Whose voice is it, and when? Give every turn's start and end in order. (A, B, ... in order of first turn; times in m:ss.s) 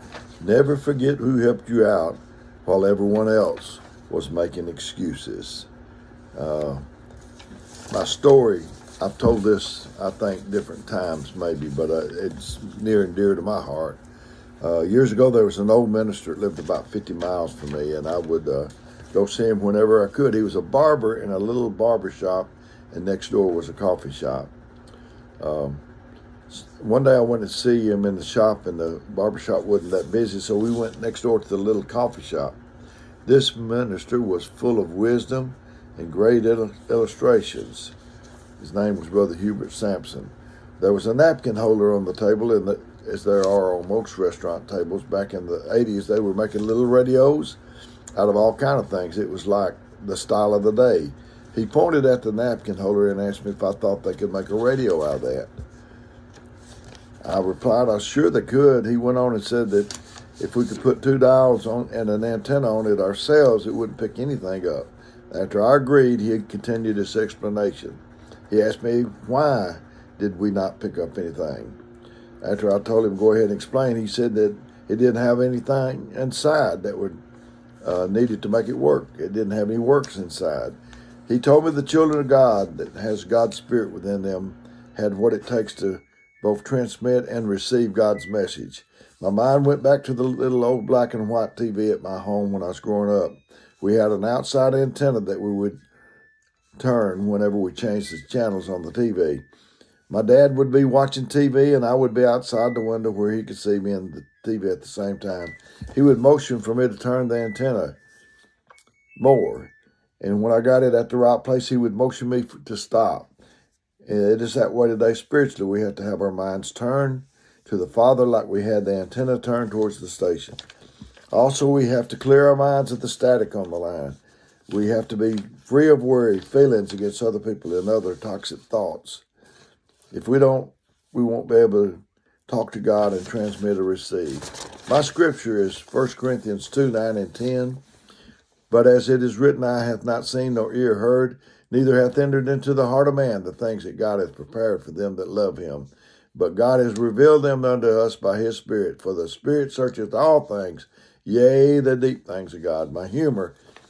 0:00.4-0:05.7 A
0:06.3-0:06.8 A
0:07.9-0:14.0 A
0:14.6-0:24.5 A
0:25.4-0:25.8 A
0:26.5-0:32.6 A
0:33.2-0:37.9 A
0:38.6-0:47.6 A
0:48.2-0:55.5 A
0:57.2-1:11.8 A
1:12.4-1:17.2 A
1:17.8-1:35.8 A
1:36.8-1:39.4 A
1:40.1-1:48.0 A
1:49.2-1:53.3 A
1:54.0-2:00.6 A
2:01.3-2:04.2 A
2:04.7-2:09.2 A
2:10.1-2:17.8 A
2:18.7-2:33.6 A